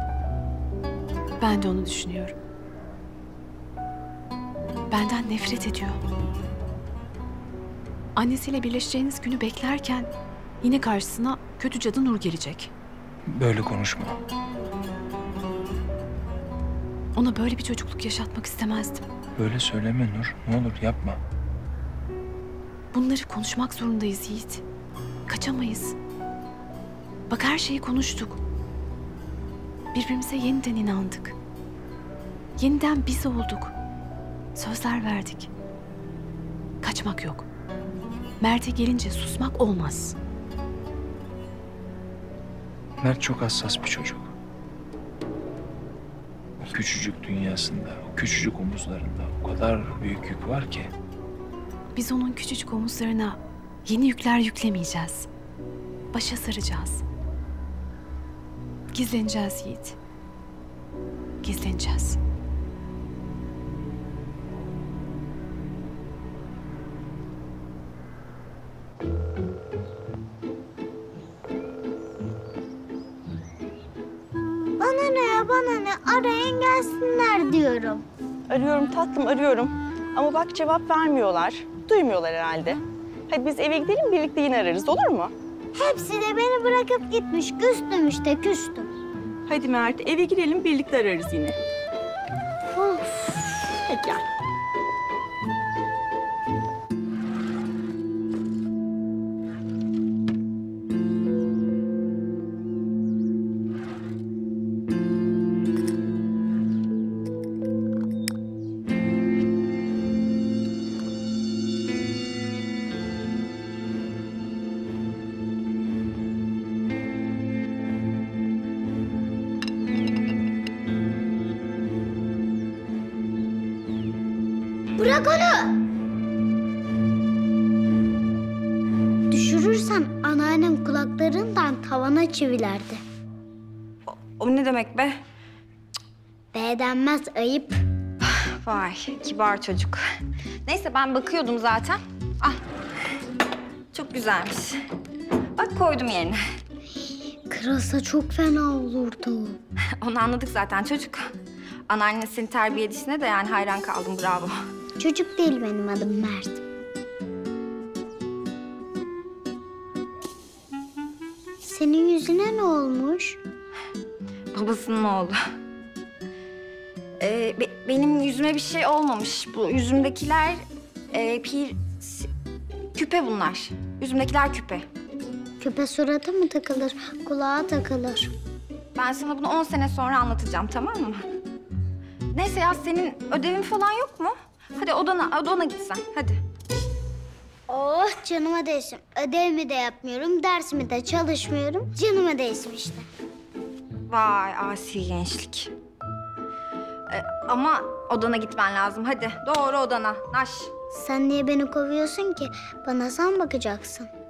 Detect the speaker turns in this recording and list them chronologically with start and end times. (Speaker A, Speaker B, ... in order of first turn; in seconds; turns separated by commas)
Speaker A: 1.4-2.3, Speaker A: 4.9-6.0, Speaker A: 8.2-10.1, Speaker A: 10.6-12.7, Speaker B: 13.3-14.2, Speaker A: 17.1-19.0, Speaker B: 19.4-21.2, Speaker A: 22.9-24.6, Speaker A: 25.3-25.9, Speaker A: 27.3-28.4, Speaker A: 29.9-31.3, Speaker A: 32.6-33.7, Speaker A: 34.5-35.5, Speaker A: 36.8-37.5, Speaker A: 38.4-40.1, Speaker B: 43.0-44.3, Speaker B: 46.6-50.9, Speaker A: 51.9-55.3, Speaker A: 56.1-57.0, Speaker A: 58.9-60.0, Speaker A: 61.4-62.2, Speaker C: 74.8-78.0, Speaker D: 78.5-85.3, Speaker C: 85.7-88.9, Speaker D: 89.5-91.6, Speaker D: 92.8-94.2, Speaker C: 125.0-125.8, Speaker C: 129.3-133.0, Speaker E: 134.1-135.2, Speaker C: 136.5-137.8, Speaker E: 138.2-140.0, Speaker E: 140.7-142.6, Speaker E: 143.9-144.8, Speaker E: 145.6-146.4, Speaker C: 147.5-149.6, Speaker E: 150.0-151.3, Speaker E: 151.9-154.6, Speaker C: 155.0-156.6, Speaker C: 161.6-163.4, Speaker E: 164.5-165.4, Speaker E: 167.2-172.3, Speaker E: 172.9-174.8, Speaker C: 175.6-178.3, Speaker E: 178.9-181.3, Speaker E: 182.3-186.4, Speaker C: 187.7-193.0, Speaker E: 194.1-195.7, Speaker E: 197.1-200.8, Speaker C: 200.9-204.1